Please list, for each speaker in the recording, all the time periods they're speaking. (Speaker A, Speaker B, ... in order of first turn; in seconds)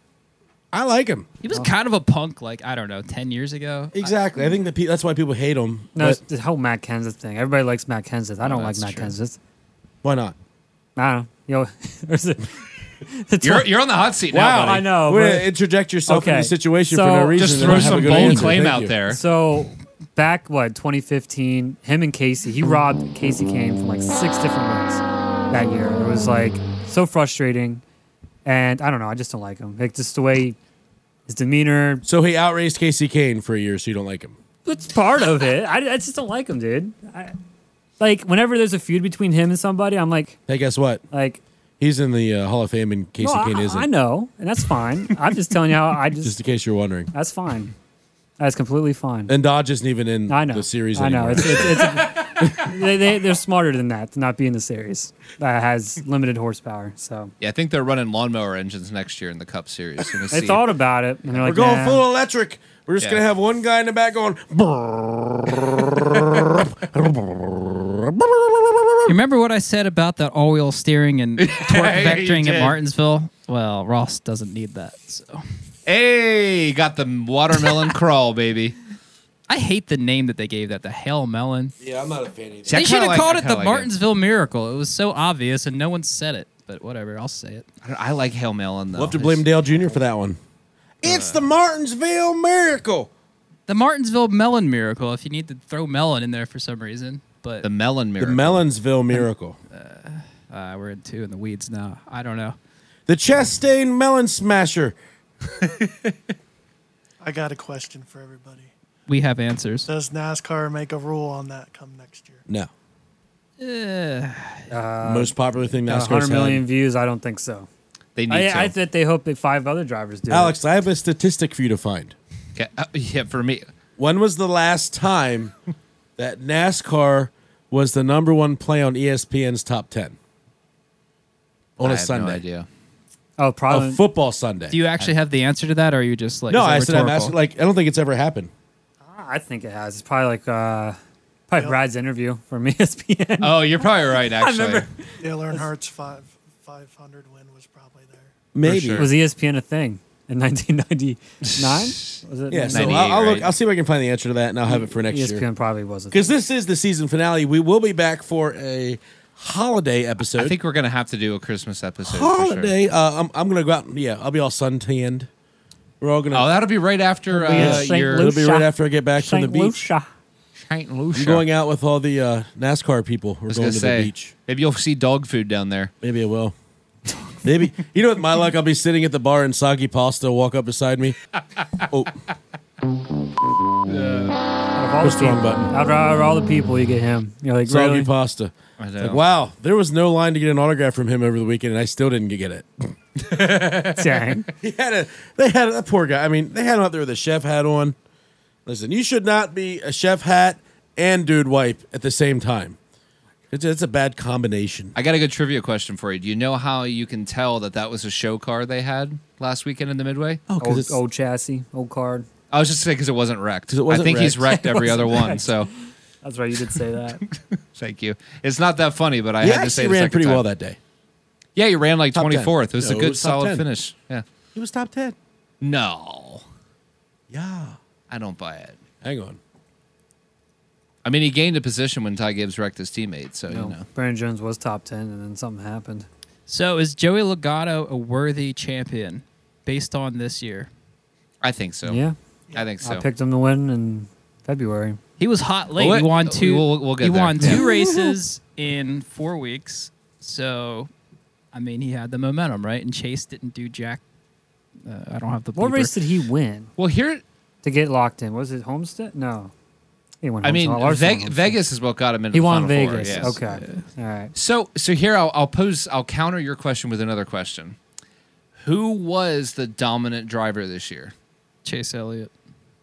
Speaker A: 0.7-1.3, 3.9-6.2, 10.0-10.3, 14.3-18.9, 32.0-34.4, 40.5-41.0, 41.8-43.9, 46.2-47.1, 49.3-52.7, 61.4-69.2, 81.8-82.8, 88.9-90.4, 91.0-93.1, 98.2-99.6, 103.1-105.0, 115.0-116.6, 120.3-122.1, 124.0-125.5, 126.2-130.2, 131.8-132.4, 133.7-134.8, 136.5-138.5, 148.5-149.1, 152.5-155.4, 156.1-160.6, 162.0-165.3, 166.0-166.5, 167.5-169.9, 171.1-174.3, 176.0-176.5, 177.4-181.2, 181.9-182.1, 185.0-185.7, 187.7-193.2, 194.6-197.9, 198.7-202.8, 203.5-204.9, 210.5-211.0, 213.7-214.6, 219.4-220.8, 222.1-223.6, 224.5-225.2, 227.3-227.8, 229.0-229.4
Speaker B: 1.4-4.1, 8.4-9.1, 69.1-75.4, 79.5-81.7, 82.7-87.6, 91.0-91.4, 93.7-97.7, 99.1-102.5, 109.1-109.9, 113.6-114.7, 134.7-137.3, 236.5-240.7, 245.2-250.9, 251.5-254.0, 254.8-255.9, 263.0-263.9, 271.6-272.3
Speaker C: 5.9-9.4, 11.0-13.7, 14.4-15.5, 16.1-18.3, 19.1-27.8, 28.4-30.6, 31.3-32.0, 34.6-37.4, 38.0-40.4, 41.1-41.4, 43.2-46.4, 47.1-47.7, 48.4-49.3, 50.3-57.3, 60.3-62.0, 114.7-115.3, 115.8-117.7, 118.3-120.5, 133.4-134.0, 139.1-141.0, 141.5-145.7, 149.0-153.0, 154.7-156.3, 167.3-170.1, 184.8-188.1, 193.9-194.5, 210.6-212.2, 214.5-215.7, 216.2-217.2, 233.5-236.1, 241.8-242.2, 242.8-245.0, 255.5-256.7, 257.6-259.5, 260.2-261.6, 262.3-264.3
Speaker D: 13.4-14.8, 17.4-19.2, 57.4-60.6, 71.4-72.8, 75.8-78.8, 82.7-83.9, 87.8-89.4, 97.6-98.6, 118.2-118.7, 122.5-123.7, 131.8-132.7, 143.4-144.9, 148.6-149.1, 151.5-152.2, 152.7-153.5, 160.3-162.7, 166.3-168.3, 170.6-171.4, 173.5-175.9, 183.9-184.3, 188.8-189.2, 193.2-194.1, 204.9-210.4, 212.5-215.7, 217.2-220.4, 221.6-224.2, 225.6-226.4, 228.1-228.8, 231.0-233.8, 241.4-242.0, 242.5-243.0, 245.8-247.7, 256.8-257.2, 260.4-263.4, 264.3-267.8, 268.6-271.1
Speaker E: 107.2-108.7, 109.8-112.4, 145.2-148.3